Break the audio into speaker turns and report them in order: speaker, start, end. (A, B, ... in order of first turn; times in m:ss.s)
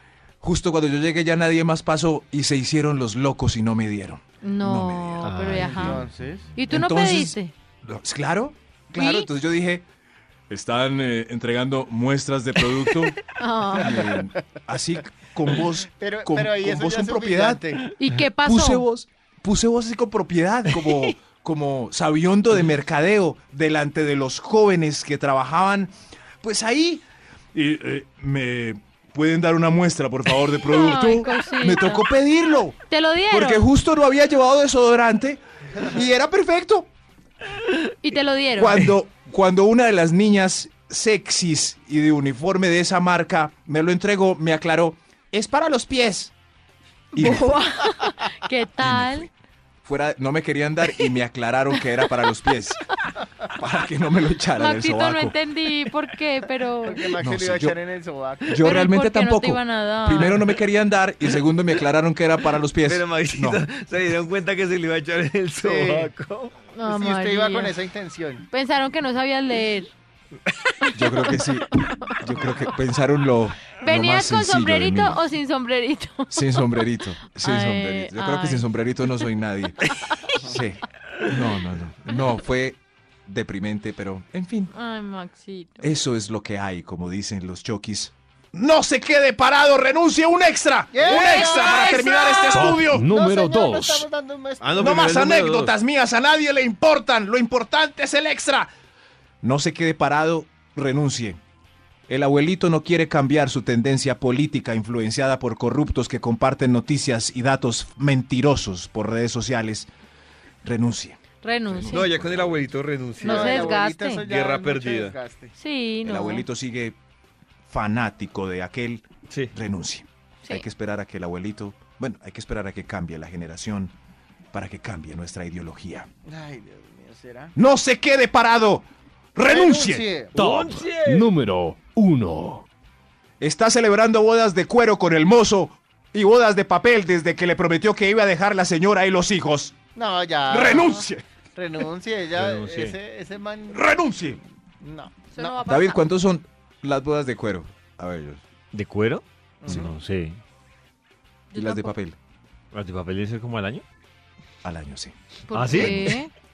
0:00.4-0:05.9 A
0:04.4-0:06.0 B
0:05.2-0:06.0 C
0:05.5-0:06.5 D
0:06.5-0:07.5 B
0:06.7-0:09.8 A
0:08.9-0:09.3 B
0:10.5-0:13.2 A
0:13.3-0:14.1 B
0:13.7-0:17.7 A
0:15.8-0:17.8 D
0:18.0-0:18.9 B
0:18.4-0:32.8 A
0:30.6-0:32.1 B
0:32.9-0:33.7 B
0:33.3-0:36.9 A
0:38.0-0:38.9 B
0:38.5-0:46.3 A
0:47.1-0:47.6 A
0:47.1-0:49.3 B
0:48.8-0:49.3 A
0:49.8-0:52.8 A
0:51.7-0:52.5 B
0:53.5-0:55.4 A
0:54.6-0:57.1 B
0:56.8-0:58.6 D
0:57.2-0:57.8 A
0:58.5-1:03.6 A
0:58.6-1:00.4 B
1:02.8-1:06.5 C
1:05.6-1:06.1 D
1:06.7-1:07.7 B
1:06.8-1:08.4 D
1:08.5-1:09.9 B
1:10.8-1:12.4 B
1:10.9-1:15.2 A
1:13.8-1:16.8 B
1:16.3-1:19.8 A
1:17.4-1:18.7 B
1:20.4-1:24.7 A
1:24.7-1:25.9 B
1:25.8-1:33.1 A
1:30.9-1:35.0 D
1:31.1-1:32.7 B
1:32.5-1:34.1 E
1:34.6-1:35.7 C
1:34.8-1:38.7 A
1:39.4-1:41.4 A
1:42.1-1:49.9 A
1:50.6-1:52.7 A
1:51.4-1:52.1 B
1:51.9-1:55.2 C
1:53.2-1:55.5 D
1:53.2-1:54.2 B
1:55.6-1:56.4 B
1:56.0-1:57.0 A
1:57.7-2:03.9 A
2:04.5-2:06.1 A
2:06.2-2:07.5 D
2:07.6-2:10.1 A
2:09.4-2:10.4 D
2:10.3-2:11.3 C
2:10.4-2:12.7 E
2:13.4-2:19.8 A
2:19.9-2:23.9 D
2:20.5-2:21.2 A
2:22.3-2:23.0 C
2:23.7-2:24.4 A
2:24.8-2:25.6 D
2:25.3-2:26.0 B
2:25.6-2:28.4 A
2:28.7-2:30.4 C
2:29.6-2:29.9 D
2:31.5-2:31.9 B
2:31.5-2:32.2 A
2:32.7-2:33.8 C
2:34.6-2:36.2 A
2:35.5-2:36.3 B
2:35.5-2:36.2 C